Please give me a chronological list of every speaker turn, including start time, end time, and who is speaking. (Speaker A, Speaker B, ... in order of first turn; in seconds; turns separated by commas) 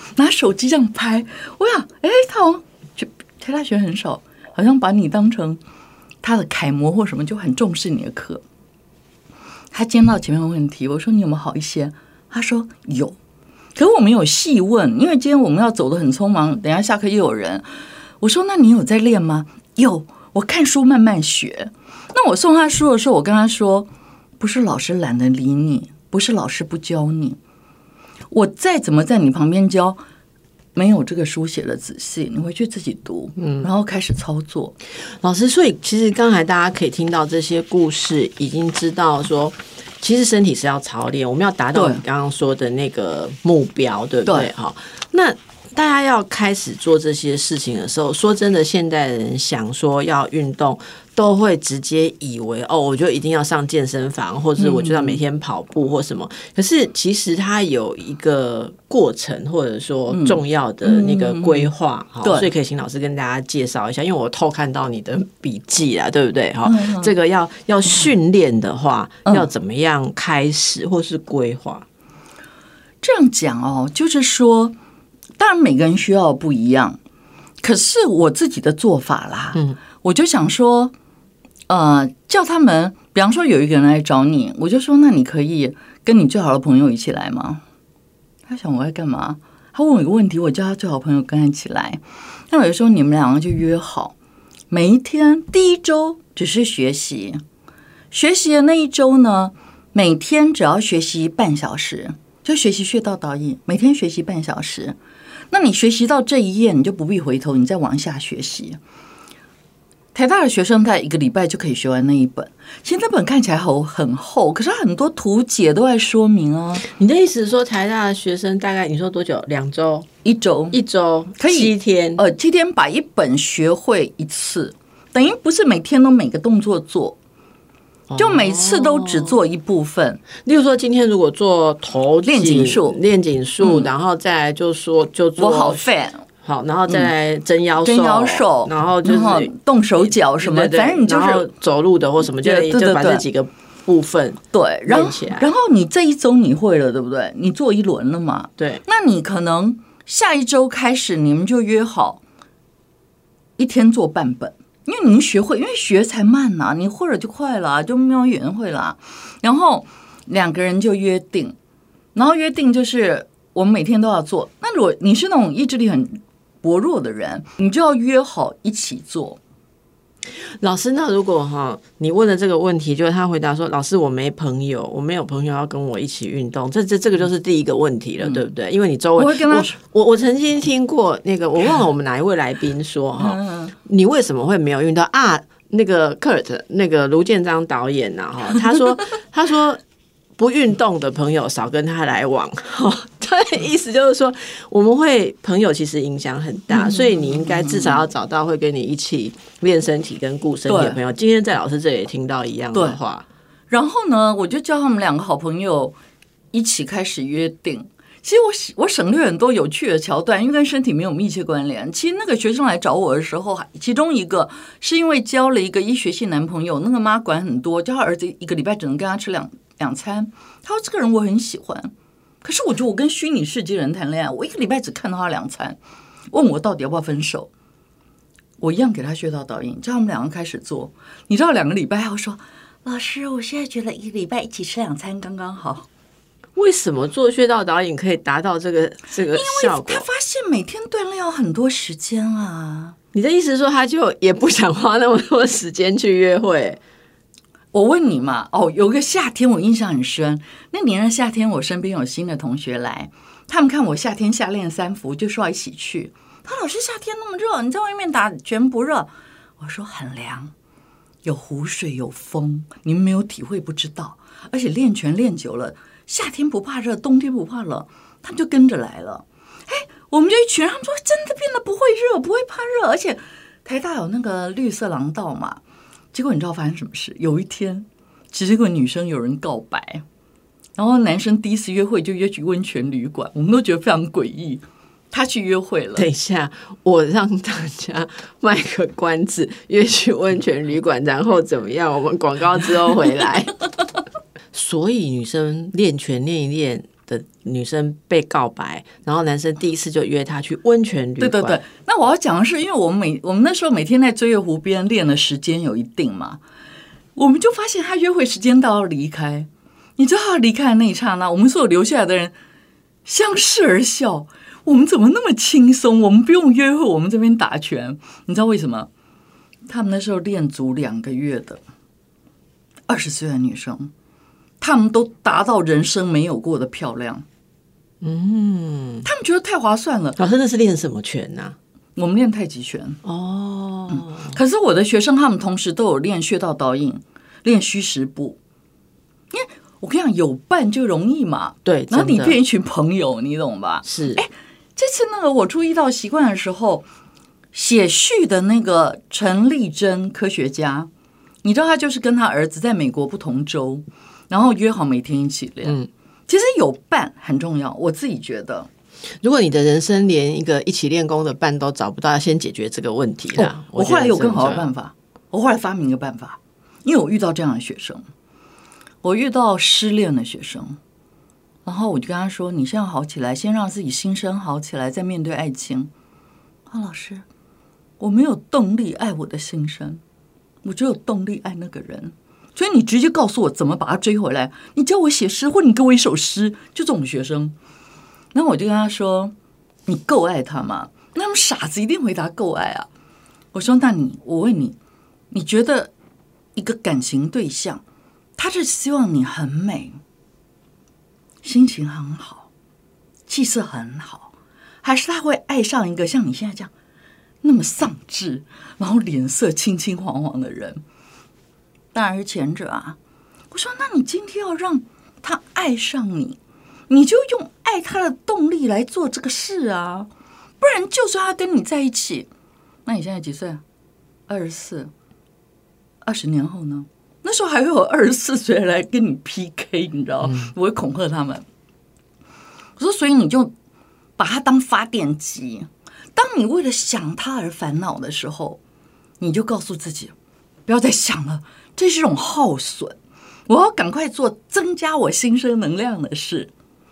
Speaker A: 0.2-5.6, Speaker A: 6.2-8.4, Speaker A: 9.7-13.2, Speaker A: 13.8-17.7, Speaker A: 18.2-23.9, Speaker A: 24.4-27.4, Speaker A: 28.3-30.0, Speaker A: 30.8-34.8, Speaker B: 33.4-33.7, Speaker B: 35.0-71.8, Speaker A: 41.8-42.0, Speaker A: 44.3-44.5, Speaker A: 54.6-55.2, Speaker A: 60.1-61.7, Speaker A: 62.2-62.5, Speaker A: 66.7-67.1, Speaker A: 73.0-74.8, Speaker A: 75.4-77.0, Speaker A: 77.6-80.9, Speaker A: 81.7-87.6, Speaker A: 88.5-94.1, Speaker A: 94.7-97.4, Speaker A: 98.1-105.0, Speaker A: 105.5-108.8, Speaker A: 110.1-116.8, Speaker B: 116.8-120.1, Speaker A: 120.2-120.8, Speaker B: 120.7-122.2, Speaker A: 121.4-127.2, Speaker B: 128.1-129.4, Speaker A: 128.2-130.2, Speaker B: 130.4-135.9, Speaker A: 132.3-133.0, Speaker A: 133.6-133.9, Speaker A: 135.4-136.2, Speaker B: 136.4-139.5, Speaker A: 137.8-141.5, Speaker B: 140.4-145.5, Speaker A: 142.3-143.2, Speaker A: 144.5-152.2, Speaker B: 148.6-148.8, Speaker A: 153.6-161.6, Speaker A: 162.2-169.4, Speaker B: 170.6-189.8, Speaker A: 178.2-178.5, Speaker A: 179.2-179.8, Speaker A: 183.2-183.7, Speaker B: 190.4-203.2, Speaker A: 196.7-198.1, Speaker A: 200.7-201.0, Speaker A: 203.7-206.0, Speaker A: 206.5-221.9, Speaker A: 222.4-225.8, Speaker A: 226.3-227.5, Speaker A: 228.6-235.9, Speaker B: 236.6-240.1, Speaker A: 239.3-243.0, Speaker B: 243.1-246.8, Speaker A: 247.7-260.5, Speaker A: 261.2-275.6, Speaker A: 276.1-280.0, Speaker A: 280.8-286.1, Speaker B: 286.0-293.6, Speaker B: 294.5-301.6, Speaker A: 301.2-306.4, Speaker A: 307.2-312.3, Speaker A: 313.1-318.9, Speaker A: 319.7-321.6, Speaker A: 322.9-323.9, Speaker A: 324.6-327.2, Speaker B: 328.0-329.1, Speaker A: 329.1-330.2, Speaker B: 330.2-331.6, Speaker A: 332.0-333.0, Speaker B: 333.0-334.3, Speaker A: 333.9-338.4, Speaker A: 339.3-346.9, Speaker B: 341.6-342.4, Speaker B: 343.8-344.2, Speaker A: 347.5-350.9, Speaker A: 351.4-358.7, Speaker B: 359.2-364.7, Speaker A: 363.4-368.0, Speaker A: 369.0-370.8, Speaker A: 371.7-375.9, Speaker A: 376.7-377.2, Speaker A: 378.0-380.0, Speaker A: 380.6-387.6, Speaker A: 388.3-389.3, Speaker A: 389.9-392.9, Speaker A: 393.5-394.8, Speaker A: 395.3-395.9, Speaker A: 396.6-397.8, Speaker A: 398.4-400.0, Speaker A: 401.4-402.5, Speaker A: 403.3-404.3, Speaker A: 404.8-406.7, Speaker A: 407.4-410.8, Speaker A: 411.9-413.0, Speaker A: 413.5-416.4, Speaker A: 416.9-420.1, Speaker A: 420.6-422.3, Speaker A: 422.9-423.6, Speaker A: 424.3-424.9, Speaker A: 426.0-431.4, Speaker A: 432.8-433.5, Speaker A: 434.2-438.6, Speaker A: 439.2-440.1, Speaker A: 440.7-443.0, Speaker A: 443.5-446.5